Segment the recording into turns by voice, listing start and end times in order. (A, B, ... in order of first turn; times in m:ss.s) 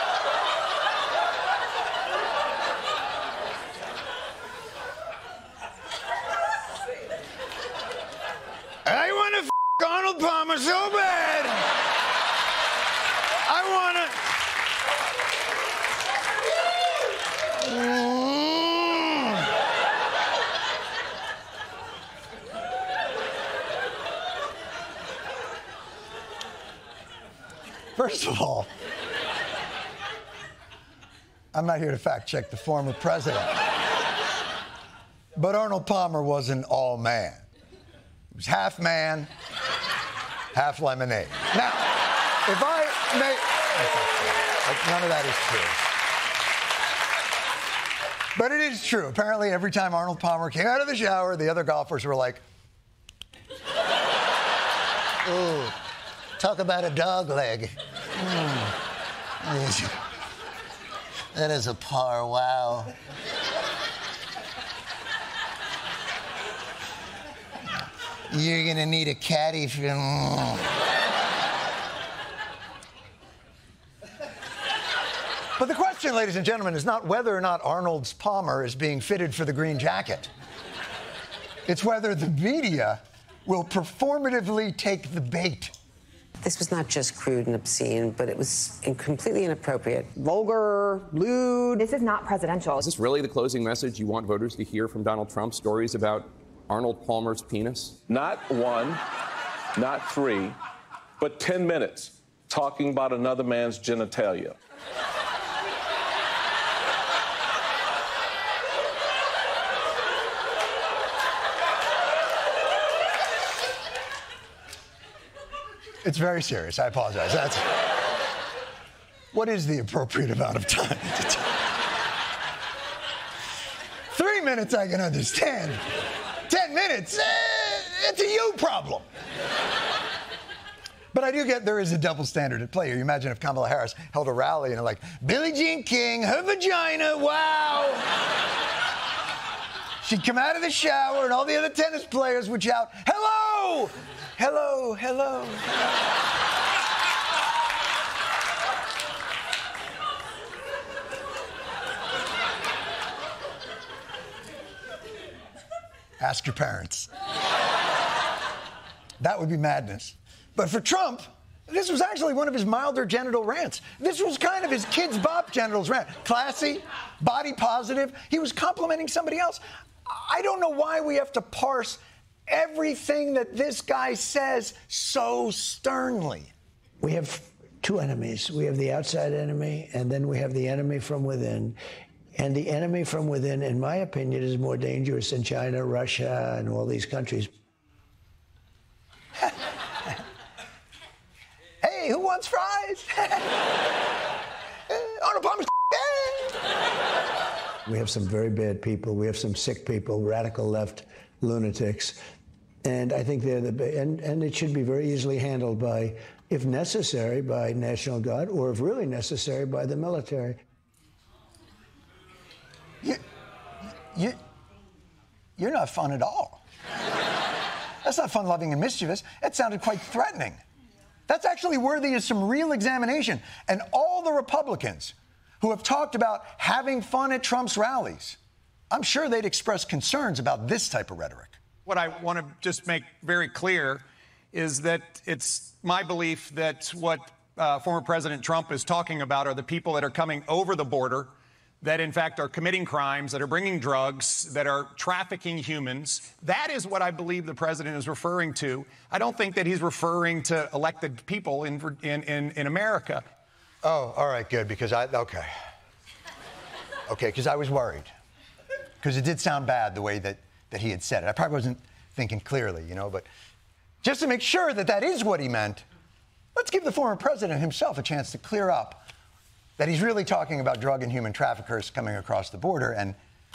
0:08.8-0:11.6 A
0:13.4-0:14.2 A
0:17.6-0:19.4 A
0:28.0-0:28.7 A
0:31.5-0:33.6 A
0:35.4-0:37.4 A
0:38.3-0:39.3 A
0:40.5-0:45.8 A
0:48.4-0:52.4 A
0:55.2-0:55.8 A
0:56.4-0:58.8 A
0:59.4-0:59.9 A
1:01.3-1:02.9 A
1:07.8-1:10.7 A
1:15.6-1:20.3 A
1:21.7-1:25.7 A
1:26.4-1:31.1 B
1:30.9-1:32.9 C
1:32.8-1:37.9 D
1:38.1-1:39.0 E
1:39.8-1:40.6 E
1:41.2-1:44.5 E
1:56.0-1:57.6 A
1:59.3-2:01.4 A
2:04.1-2:05.8 A
2:06.5-2:09.0 A
2:11.1-2:18.0 A
2:20.0-2:25.7 A
2:36.2-2:37.1 A
2:39.2-2:56.5 A
2:57.0-3:01.8 F
3:02.4-3:07.5 F
3:11.8-3:13.5 A
3:14.9-3:16.5 A
3:17.9-3:22.2 F
3:22.8-3:30.6 F
3:35.6-3:36.6 A
3:38.0-3:40.6 A
3:41.3-3:48.4 A
3:48.9-3:51.6 A
3:51.9-4:01.3 G
4:01.8-4:13.2 G
4:13.8-4:15.5 A
4:17.1-4:18.1 A
4:19.0-4:23.3 A
4:24.0-4:25.8 A
4:26.5-4:29.0 A
4:29.8-4:33.2 A